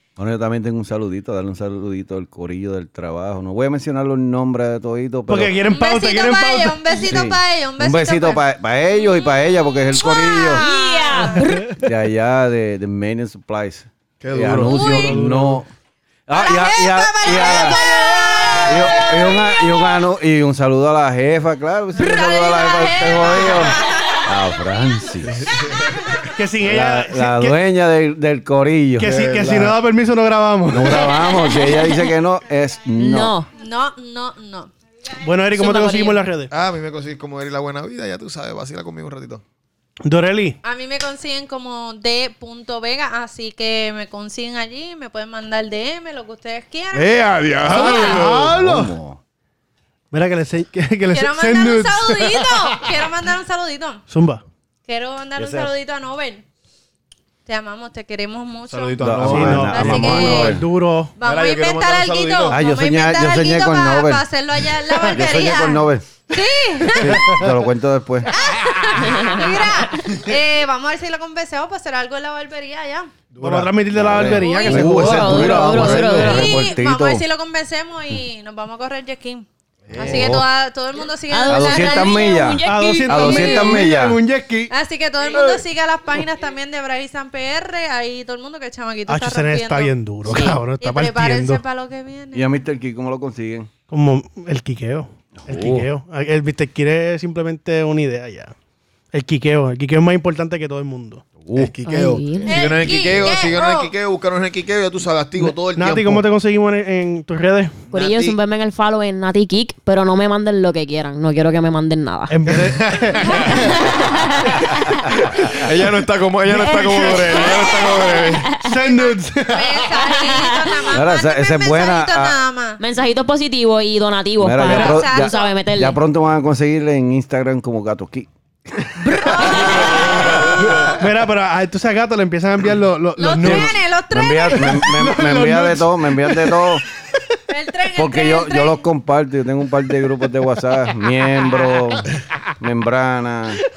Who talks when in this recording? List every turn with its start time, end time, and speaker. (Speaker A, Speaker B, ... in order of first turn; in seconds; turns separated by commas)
Speaker A: 0.2-5.6, Speaker B: 5.3-6.8, Speaker C: 5.7-8.4, Speaker A: 7.0-10.6, Speaker C: 9.9-11.4, Speaker D: 10.5-11.8, Speaker B: 11.3-11.7, Speaker A: 11.8-15.7, Speaker E: 14.2-15.3, Speaker C: 14.7-15.2, Speaker B: 15.0-15.6, Speaker A: 16.3-25.4, Speaker C: 16.3-20.0, Speaker C: 21.9-24.2, Speaker E: 25.2-26.1, Speaker B: 26.3-27.6, Speaker A: 26.6-29.1, Speaker B: 29.0-31.2, Speaker E: 29.0-29.8, Speaker A: 30.7-33.3, Speaker D: 31.7-32.1, Speaker D: 33.0-33.5, Speaker C: 33.5-34.7, Speaker B: 35.2-36.5, Speaker D: 35.5-36.2, Speaker E: 36.5-39.4, Speaker B: 40.0-40.6, Speaker C: 40.6-47.1, Speaker E: 46.9-48.5, Speaker B: 47.7-48.9, Speaker C: 47.8-48.0, Speaker A: 48.0-49.2, Speaker B: 50.1-52.5, Speaker C: 51.1-54.0, Speaker B: 54.1-54.4, Speaker C: 54.9-56.5, Speaker A: 55.4-55.7, Speaker C: 57.5-60.6, Speaker E: 58.7-60.1, Speaker A: 59.0-60.7, Speaker B: 59.2-61.1, Speaker C: 61.2-67.4, Speaker E: 61.2-62.6, Speaker A: 62.5-64.2, Speaker A: 65.0-66.1, Speaker A: 66.9-68.3, Speaker C: 68.3-73.1, Speaker D: 69.0-69.5, Speaker E: 73.3-74.4, Speaker B: 73.4-76.4, Speaker A: 73.9-77.2, Speaker C: 74.2-82.6, Speaker D: 74.8-76.7, Speaker E: 75.4-76.1, Speaker E: 79.9-80.4, Speaker A: 79.9-80.5, Speaker D: 81.3-83.9, Speaker A: 81.5-84.2, Speaker B: 82.7-84.7, Speaker C: 84.7-89.9, Speaker B: 89.1-91.6, Speaker C: 90.8-92.5, Speaker A: 92.3-93.7, Speaker B: 93.9-98.5, Speaker A: 95.4-95.9, Speaker B: 99.1-101.2, Speaker A: 101.4-101.7, Speaker E: 101.6-106.2, Speaker D: 101.8-102.9, Speaker C: 102.5-103.9, Speaker B: 105.4-107.8, Speaker E: 107.9-108.4, Speaker D: 107.9-112.4, Speaker B: 112.3-113.7, Speaker E: 112.5-113.7, Speaker D: 113.5-115.0, Speaker E: 115.3-118.5, Speaker B: 116.6-116.9, Speaker D: 116.8-118.6, Speaker B: 118.6-119.9, Speaker C: 118.7-122.8, Speaker D: 120.2-120.8, Speaker A: 120.9-122.4, Speaker D: 122.8-126.0, Speaker A: 124.4-131.0, Speaker C: 124.7-125.5, Speaker D: 129.1-129.9, Speaker C: 129.4-129.8, Speaker E: 129.9-130.9, Speaker B: 131.0-133.7, Speaker C: 133.2-134.9, Speaker A: 133.4-136.8, Speaker B: 134.5-136.7, Speaker C: 137.5-138.8, Speaker A: 138.0-143.6